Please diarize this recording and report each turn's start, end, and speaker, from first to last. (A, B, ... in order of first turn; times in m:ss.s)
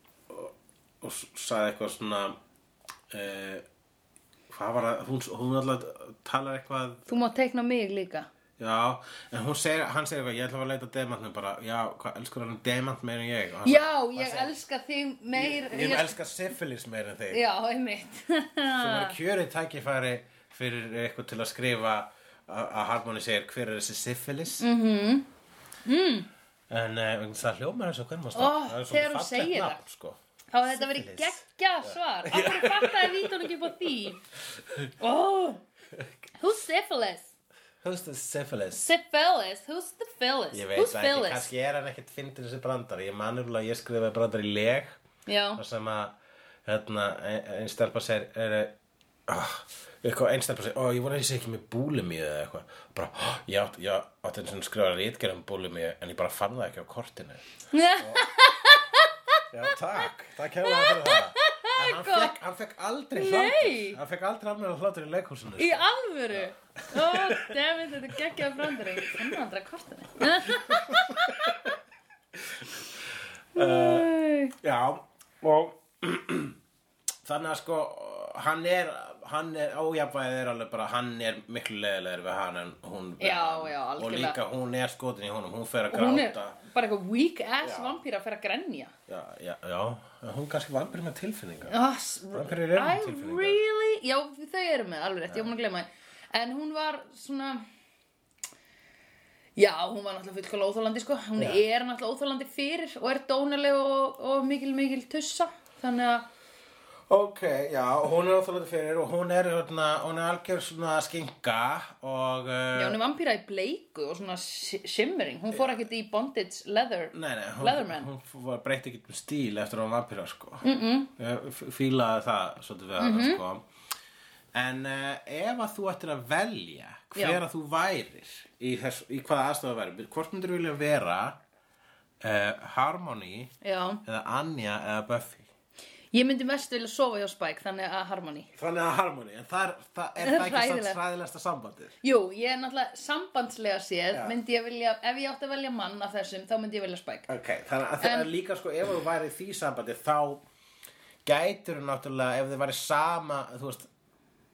0:00.3-0:02.4 A
0:03.1-0:03.6 A
0:04.5-0:07.1 A
0:07.1-0:08.3 B
0:08.6-0:14.5 A
0:13.6-0:16.2 B
0:15.3-0:17.4 A
0:17.3-0:19.1 B
0:18.7-0:24.6 A
0:24.6-0:25.3 B
0:25.8-0:26.3 B
0:26.7-0:30.2 A
0:28.3-0:29.8 B
0:30.5-0:34.2 B
0:30.7-0:34.0 A
0:34.5-0:34.9 A
0:35.0-0:35.6 B
0:36.4-0:37.3 B
0:37.8-0:38.9 A
0:38.8-0:41.5 B
0:40.5-0:45.0 A
0:45.3-0:45.6 B
0:45.6-0:48.7 A
0:49.3-0:57.4 A
0:57.7-0:59.8 B
0:58.0-0:58.3 A
0:59.5-1:09.3 A
1:00.6-1:02.3 B
1:03.1-1:04.0 B
1:05.6-1:11.7 B
1:10.2-1:11.7 A
1:12.4-1:16.6 A
1:13.5-1:14.5 B
1:17.2-1:26.6 A
1:23.2-1:24.4 B
1:25.9-1:28.9 B
1:27.6-1:28.0 A
1:29.1-1:31.8 A
1:31.7-1:37.6 B
1:32.3-1:33.6 A
1:39.6-1:46.3 B
1:41.4-1:41.6 A
1:47.1-1:53.0 A
1:52.7-1:58.1 B
1:55.5-1:55.8 A
1:57.1-2:00.6 A
2:00.6-2:01.1 B
2:01.2-2:03.6 A
2:03.0-2:03.4 B
2:04.5-2:11.4 A
2:07.2-2:07.4 B
2:12.2-2:13.5 A
2:13.6-2:14.0 B
2:14.0-2:15.5 A
2:16.1-2:18.5 B
2:18.5-2:21.9 A
2:20.2-2:21.0 B
2:22.0-2:27.3 B
2:27.3-2:30.4 A
2:28.0-2:28.3 B
2:31.2-2:33.9 A